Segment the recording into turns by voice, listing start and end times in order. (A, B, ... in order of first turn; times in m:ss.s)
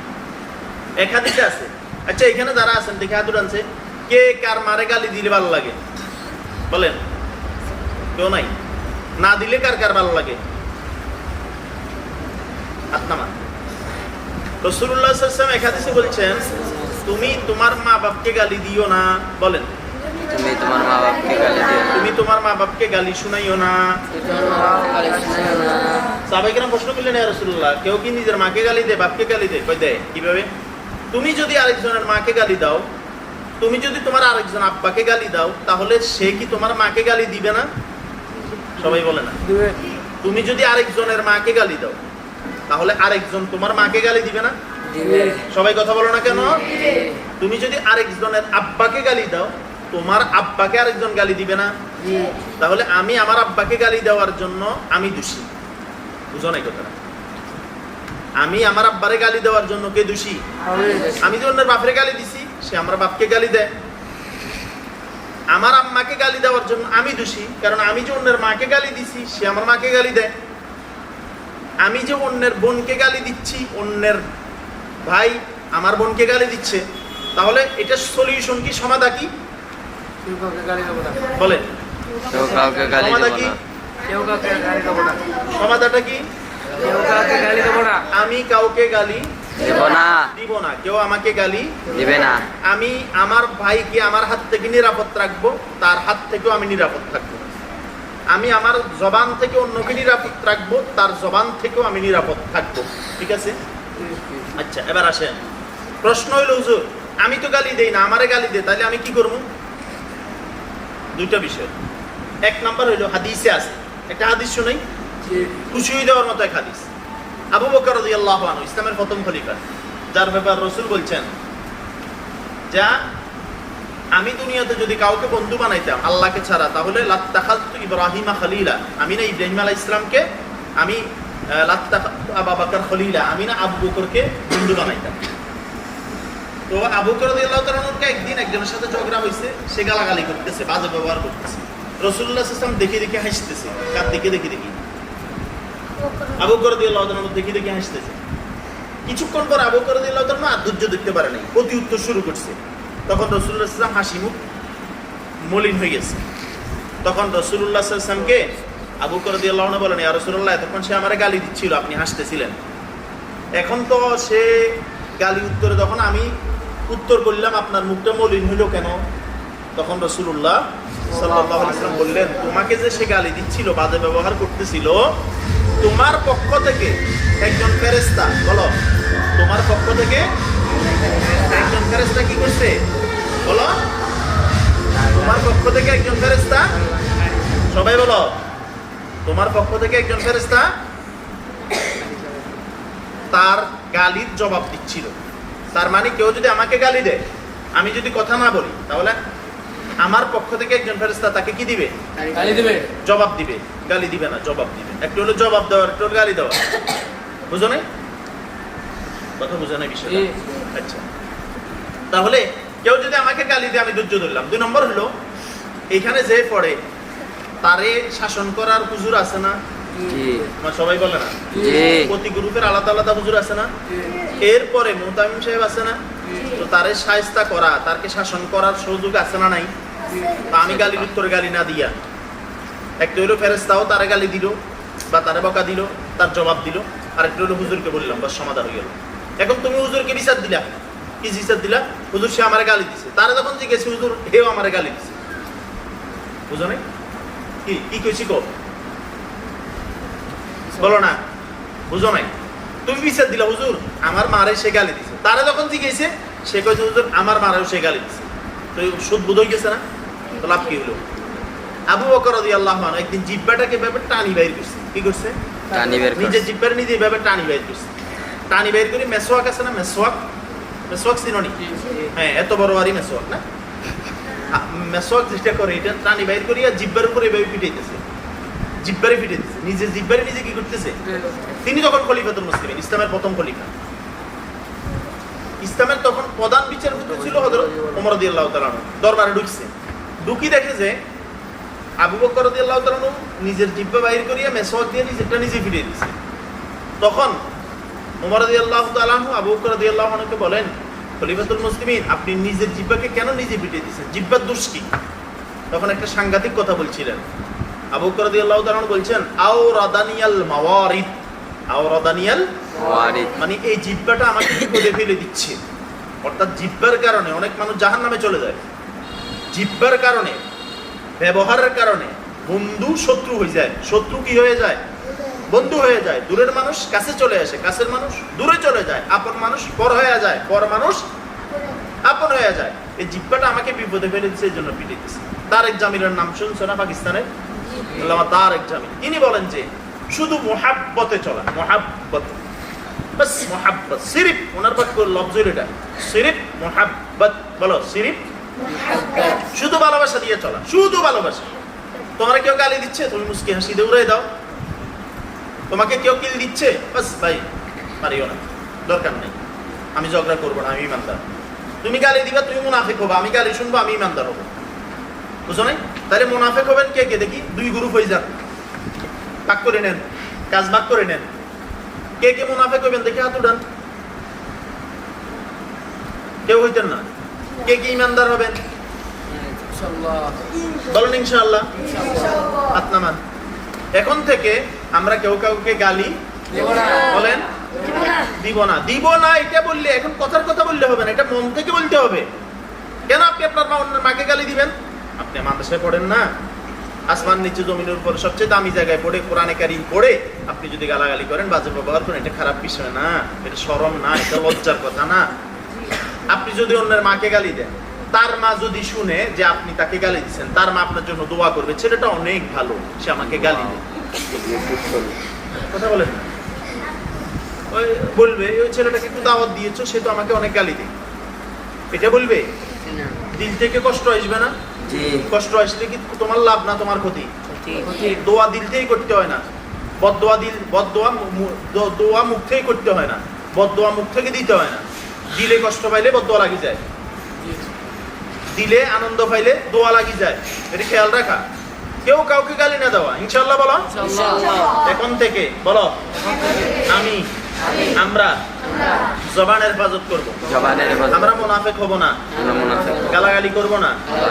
0:01.0-0:05.8 A
0:06.7-0:07.0 A
0:08.2-0:08.6 A
0:09.2-0:10.4 A
0:12.9-0:13.4 A
0:14.6-0:16.5 A
0:17.0-0:19.7 A
0:20.2-0:22.1 B
0:21.9-0:24.0 A
0:24.2-0:26.0 C
0:26.3-0:30.5 A
0:31.1-0:32.8 A
0:33.6-0:37.7 A
0:38.8-0:39.4 A
0:40.2-0:42.0 A
0:42.7-0:44.6 A
0:44.9-0:45.4 C
0:45.5-0:46.9 A
0:47.4-0:51.7 A
0:52.6-0:55.5 A
0:56.3-0:56.9 A
0:58.4-1:00.4 A
1:00.8-1:01.1 C
1:01.2-1:03.7 A
1:05.5-1:10.3 A
1:11.8-1:14.2 A
1:15.1-1:16.8 A
1:17.4-1:19.3 A
1:20.3-1:21.2 C
1:21.3-1:21.7 A
1:22.3-1:23.6 B
1:22.9-1:23.6 A
1:24.1-1:25.2 C
1:25.5-1:26.2 A
1:26.9-1:28.0 C
1:28.1-1:29.3 A
1:29.6-1:30.3 B
1:30.3-1:31.8 A
1:31.9-1:32.5 B
1:32.7-1:37.5 A
1:38.3-1:43.6 A
1:44.6-1:45.4 A
1:46.0-1:49.4 A
1:51.2-1:51.7 A
1:52.5-1:54.8 A
1:55.3-1:55.6 C
1:55.7-1:56.9 A
1:57.5-1:59.6 A
2:00.1-2:01.3 A
2:02.7-2:03.0 A
2:04.2-2:10.3 A
2:10.8-2:15.2 A
2:16.7-2:24.8 A
2:26.4-2:28.2 A
2:29.1-2:32.6 A
2:33.1-2:34.4 A
2:35.5-2:36.2 A
2:37.0-2:38.5 A
2:39.0-2:42.6 A
2:43.6-2:46.3 A
2:46.9-2:49.0 A
2:49.8-2:55.1 A
2:55.8-2:58.8 A
2:59.4-3:00.3 A
3:01.4-3:02.8 A
3:03.4-3:03.8 A
3:05.1-3:06.7 A
3:07.7-3:08.4 A
3:09.3-3:10.7 A
3:13.3-3:15.1 A
3:15.7-3:17.2 A
3:17.8-3:19.2 A
3:20.0-3:21.9 A
3:22.2-3:22.9 C
3:23.0-3:26.6 A
3:27.5-3:27.8 A
3:29.4-3:31.0 A
3:32.1-3:35.1 A
3:35.9-3:36.8 A
3:37.6-3:39.6 A
3:40.0-3:40.5 B
3:40.6-3:41.4 A
3:41.5-3:42.1 B
3:41.9-3:43.7 A
3:44.4-3:49.7 A
3:50.5-3:51.9 A
3:50.8-3:51.0 B
3:53.0-3:54.6 A
3:55.1-4:05.2 A
4:06.5-4:06.8 A
4:07.6-4:08.5 A
4:10.8-4:11.2 A
4:11.9-4:12.3 A
4:12.9-4:19.8 A
4:20.4-4:21.0 A
4:21.9-4:25.4 A
4:25.7-4:26.4 B
4:26.2-4:27.9 A
4:28.5-4:30.2 A
4:30.9-4:31.6 A
4:31.7-4:32.0 C
4:32.1-4:33.4 A
4:34.5-4:38.0 A
4:38.8-4:41.0 A
4:41.6-4:43.7 A
4:45.6-4:49.7 A
4:50.2-4:51.0 A
4:52.0-4:56.2 A
4:57.0-4:57.4 A
4:58.2-5:04.9 A
5:05.7-5:07.2 A
5:07.9-5:11.2 A
5:11.7-5:12.5 A
5:12.8-5:13.4 B
5:13.4-5:15.6 A
5:16.2-5:18.6 A
5:19.5-5:20.4 A
5:21.2-5:24.8 A
5:25.5-5:31.0 A
5:32.1-5:37.3 A
5:38.0-5:42.4 A
5:43.2-5:48.2 A
5:48.7-5:49.4 C
5:49.5-5:51.5 A
5:52.2-5:54.3 A
5:55.7-5:57.4 A
5:58.0-5:59.4 A
6:00.0-6:01.2 A
6:01.8-6:04.5 A
6:05.5-6:08.4 A
6:09.5-6:11.3 A
6:12.2-6:13.6 A
6:16.5-6:17.1 A
6:17.6-6:18.6 A
6:19.7-6:20.3 C
6:20.9-6:21.7 A
6:22.7-6:23.2 A
6:24.0-6:26.2 A
6:26.6-6:26.9 C
6:26.9-6:27.5 A
6:28.3-6:32.3 A
6:33.1-6:36.3 A
6:37.1-6:45.3 A
6:46.3-6:53.8 A
6:53.3-6:53.8 B
6:54.3-6:55.0 B
6:55.6-6:56.3 A
6:57.7-7:00.9 A
7:01.9-7:02.5 A
7:03.3-7:04.5 A
7:04.9-7:05.3 B
7:05.2-7:07.3 A
7:07.8-7:08.0 C
7:08.0-7:09.4 A
7:10.0-7:16.8 A
7:18.5-7:21.4 A
7:22.0-7:26.0 A
7:24.0-7:24.4 C
7:26.9-7:27.3 A
7:28.0-7:28.4 A
7:29.3-7:30.4 A
7:30.5-7:31.3 B
7:31.1-7:32.2 A
7:32.4-7:33.2 B
7:33.1-7:34.0 A